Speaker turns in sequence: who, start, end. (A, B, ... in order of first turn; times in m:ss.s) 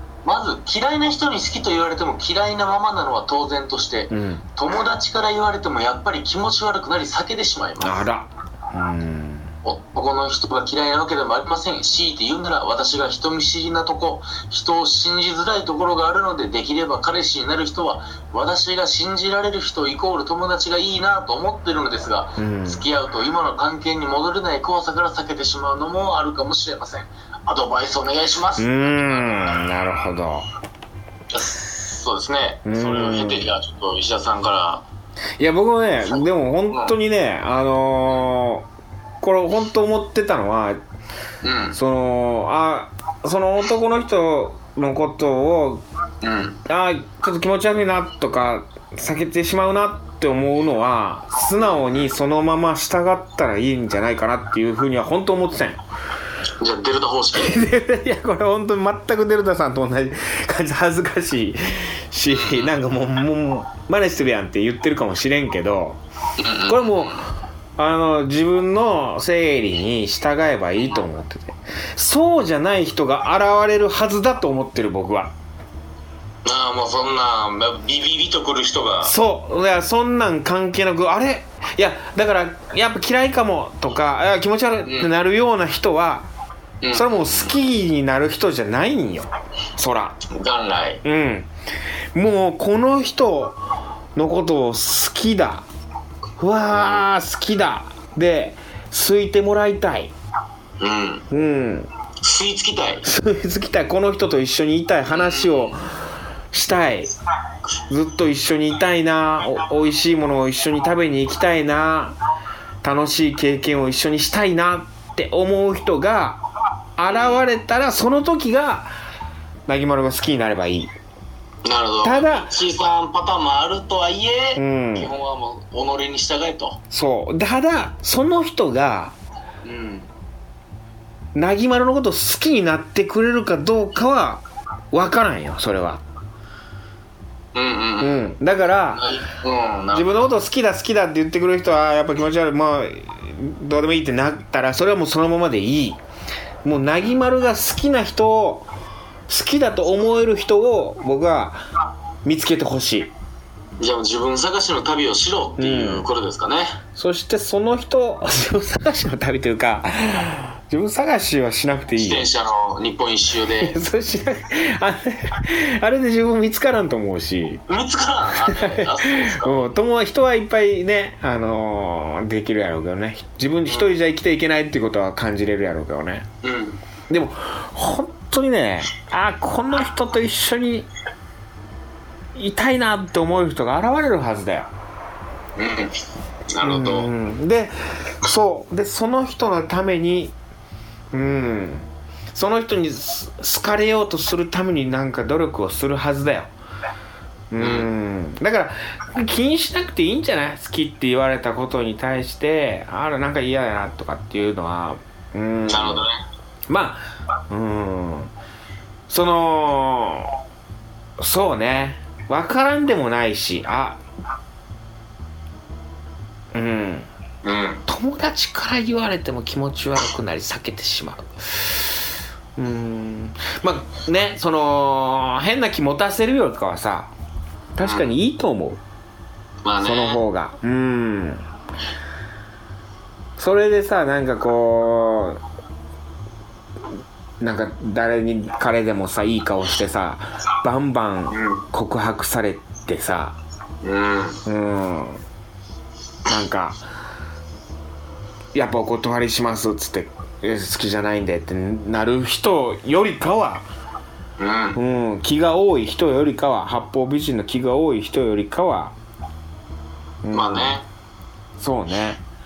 0:00.2-0:08.0 A
0:04.1-0:04.4 B
0:07.8-0:09.5 B
0:09.6-0:29.6 A
0:22.4-0:22.8 B
0:28.6-0:30.5 B
0:31.3-0:34.9 A
0:32.6-0:33.5 B
0:35.4-0:38.7 B
0:36.1-0:36.9 A
0:39.2-0:40.8 B
0:41.4-0:41.8 A
0:41.7-0:45.8 B
0:46.2-0:46.6 A
0:46.7-0:55.8 B
0:56.6-0:57.6 A
0:57.3-1:06.0 B
1:02.3-1:02.7 A
1:06.4-1:07.3 A
1:06.7-1:15.3 B
1:16.4-1:19.2 A
1:19.0-1:26.3 B
1:24.8-1:25.1 A
1:26.8-1:27.5 A
1:26.9-1:30.2 B
1:30.3-1:31.0 A
1:31.0-1:31.5 B
1:32.1-1:33.6 B
1:34.2-1:35.7 B
1:36.4-1:40.1 B
1:36.8-1:37.0 A
1:40.8-1:41.3 A
1:41.3-1:41.9 B
1:42.2-1:43.1 A
1:43.0-1:47.1 B
1:45.1-1:45.8 A
1:47.9-1:52.2 B
1:52.8-1:56.4 B
1:57.0-1:58.9 B
1:57.1-1:57.4 A
1:59.7-2:00.9 B
2:01.6-2:06.8 A
2:02.0-2:02.5 B
2:04.6-2:05.1 B
2:06.9-2:09.2 B
2:09.6-2:10.1 A
2:11.4-2:16.0 B
2:17.5-2:18.4 A
2:18.0-2:19.1 B
2:18.9-2:20.2 A
2:19.9-2:26.0 B
2:26.6-2:28.7 B
2:29.3-2:31.6 B
2:32.2-2:33.1 B
2:33.8-2:36.8 A
2:35.6-2:36.1 B
2:37.0-2:42.3 B
2:42.0-2:43.8 A
2:43.6-2:47.6 B
2:47.7-2:49.7 A
2:48.4-2:56.3 B
2:56.4-2:56.8 A
2:57.1-3:00.9 B
3:02.4-3:04.7 B
3:05.6-3:06.0 A
3:06.5-3:07.1 A
3:06.6-3:10.4 B
3:11.1-3:16.5 B
3:17.5-3:26.1 B
3:17.6-3:17.9 A
3:25.7-3:26.2 A
3:26.7-3:28.3 B
3:29.1-3:30.4 B
3:31.2-3:34.0 B
3:36.5-3:37.1 B
3:37.4-3:37.8 A
3:37.9-3:42.0 B
3:42.6-3:47.1 B
3:47.8-3:48.8 B
3:47.8-3:48.1 A
3:49.6-3:50.2 A
3:49.8-3:51.5 B
3:53.4-3:55.4 B
3:57.4-4:03.4 B
4:01.3-4:01.7 A
4:03.8-4:04.4 A
4:04.5-4:05.2 B
4:06.3-4:06.8 B
4:08.5-4:13.7 B
4:14.4-4:14.8 A
4:14.8-4:18.9 B
4:20.2-4:20.8 B
4:20.3-4:20.9 A
4:21.6-4:22.2 B